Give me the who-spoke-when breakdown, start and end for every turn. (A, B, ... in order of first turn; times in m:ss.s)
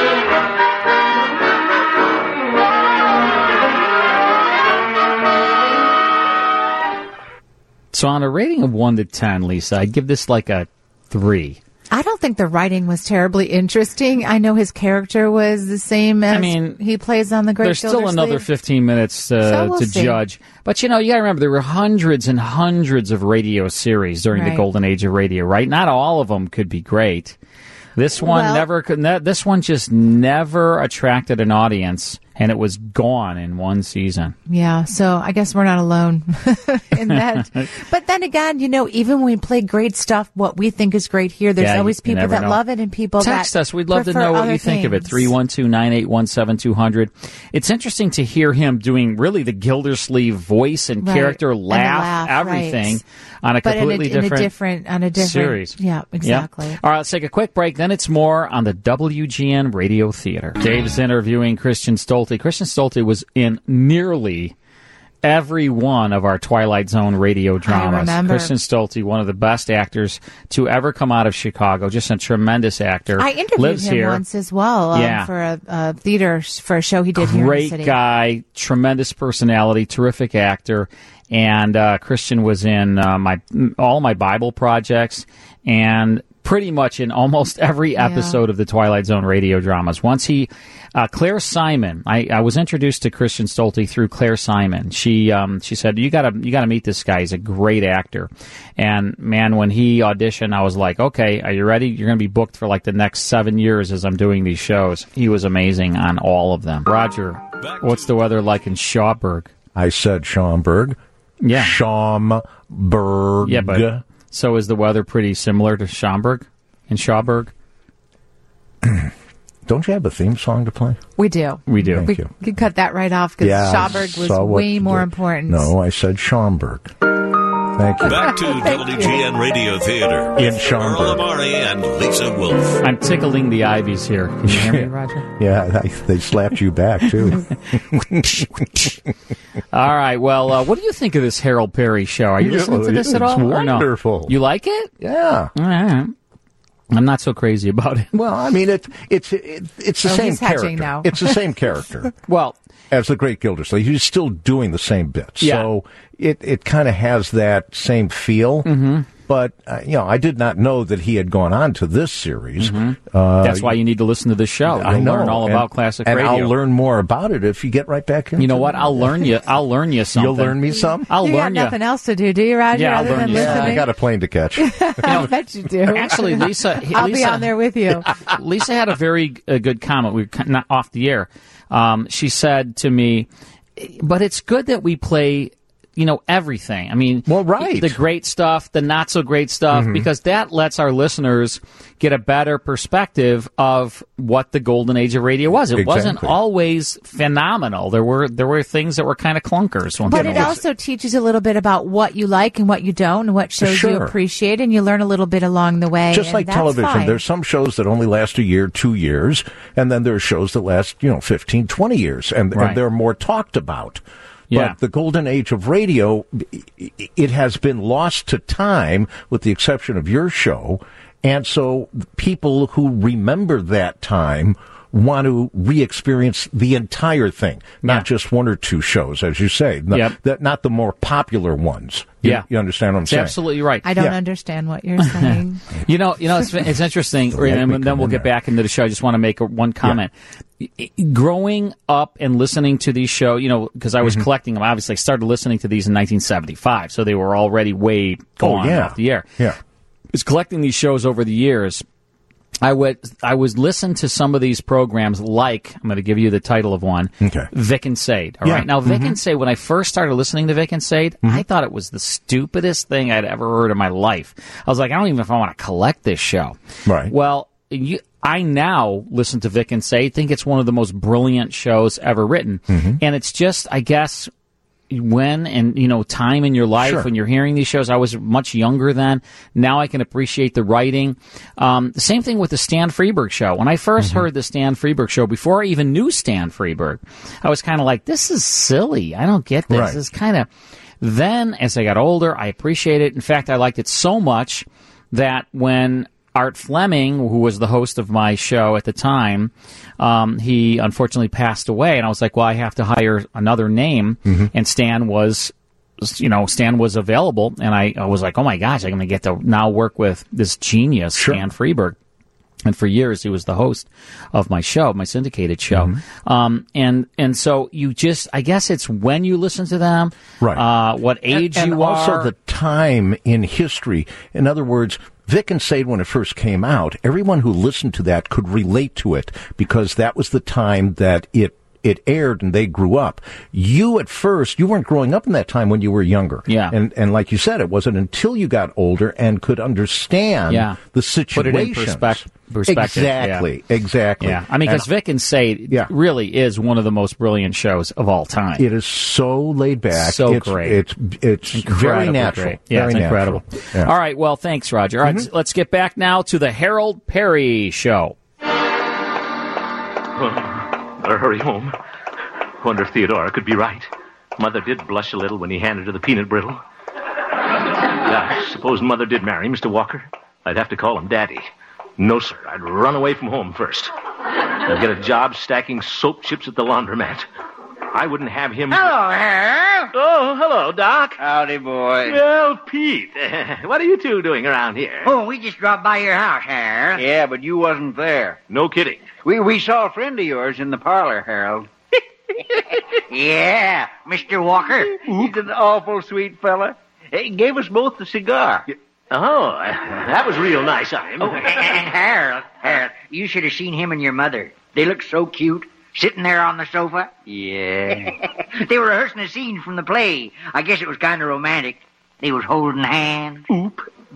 0:07.9-0:11.6 A
0:11.9-0:18.5 B
0:16.3-0:16.8 A
0:17.6-0:27.4 A
0:19.4-0:20.2 B
0:24.3-0:24.6 B
0:28.0-0:34.4 A
0:28.2-0:28.7 B
0:34.5-0:45.3 B
0:37.1-0:37.7 A
0:41.6-0:42.6 A
0:43.2-0:54.5 A
0:51.0-0:53.0 B
0:53.6-0:56.8 B
0:55.2-1:04.5 A
1:05.2-1:14.2 A
1:07.6-1:08.5 B
1:13.2-1:18.0 B
1:14.9-1:15.3 A
1:17.2-1:49.5 A
1:28.0-1:28.4 B
1:47.6-1:48.1 C
1:49.8-1:51.0 D
1:51.4-1:51.8 A
1:51.5-1:54.0 D
1:53.4-1:57.5 A
1:58.8-1:59.1 D
1:59.7-2:01.0 D
2:01.2-2:05.7 B
2:01.7-2:02.1 A
2:01.8-2:02.3 D
2:03.4-2:06.9 D
2:07.8-2:08.3 D
2:08.0-2:12.8 C
2:10.4-2:11.2 D
2:12.8-2:14.9 A
2:14.5-2:17.4 D
2:14.9-2:15.2 B
2:17.9-2:18.5 D
2:19.7-2:24.9 A
2:22.4-2:24.3 D
2:25.0-2:25.5 D
2:25.6-2:26.1 A
2:26.9-2:28.1 A
2:28.1-2:32.1 D
2:30.0-2:31.4 B
2:32.3-2:32.6 A
2:32.9-2:43.8 D
2:35.4-2:35.7 A
2:38.7-2:39.1 A
2:42.6-2:46.5 A
2:44.7-2:49.3 D
2:48.4-2:51.8 A
2:50.1-2:51.1 D
2:50.9-2:53.9 B
2:52.7-2:53.8 A
2:53.0-2:55.3 D
2:54.6-2:58.1 B
2:55.9-3:20.6 A
3:07.3-3:08.0 D
3:09.7-3:10.1 D
3:15.6-3:16.4 D
3:20.1-3:27.2 B
3:20.1-3:20.6 D
3:23.6-3:24.2 D
3:26.1-3:53.4 D
3:32.5-3:32.8 A
3:34.5-3:34.8 A
3:49.9-3:50.2 A
3:53.0-3:53.9 A
3:53.8-3:55.6 B
3:55.1-4:09.3 A
3:57.3-3:58.3 D
4:04.0-4:04.3 D
4:08.4-4:09.6 D
4:10.1-4:11.8 A
4:12.6-4:26.6 A
4:17.2-4:17.5 D
4:18.4-4:19.2 D
4:26.9-4:27.1 D
4:27.1-4:34.3 A
4:32.7-4:33.0 D
4:34.9-4:50.5 A
4:36.8-4:37.1 D
4:44.0-4:44.3 D
4:49.7-4:50.0 D
4:51.0-5:12.0 A
5:11.2-5:11.4 D
5:12.6-5:22.3 A
5:15.7-5:16.0 D
5:21.3-5:44.9 D
5:36.5-5:36.8 A
5:40.5-5:40.8 A
5:41.3-5:43.5 A
5:44.2-5:48.6 A
5:48.6-5:53.9 D
5:50.0-5:50.8 A
5:51.5-5:58.2 A
5:55.0-5:55.3 D
6:00.2-6:01.8 E
6:02.6-6:06.6 E
6:08.0-6:13.9 E
6:14.6-6:17.3 E
6:17.9-6:18.9 E
6:18.7-6:19.9 F
6:19.9-6:21.2 E
6:21.2-6:22.2 G
6:22.0-6:25.1 E
6:25.0-6:27.0 F
6:27.0-6:28.4 G
6:28.5-6:29.1 E
6:29.2-6:31.7 G
6:33.1-6:35.0 F
6:34.9-6:35.3 E
6:35.0-6:38.7 G
6:39.1-6:41.8 E
6:41.2-6:47.1 F
6:47.3-6:48.1 G
6:48.6-6:53.5 F
6:53.5-6:53.9 E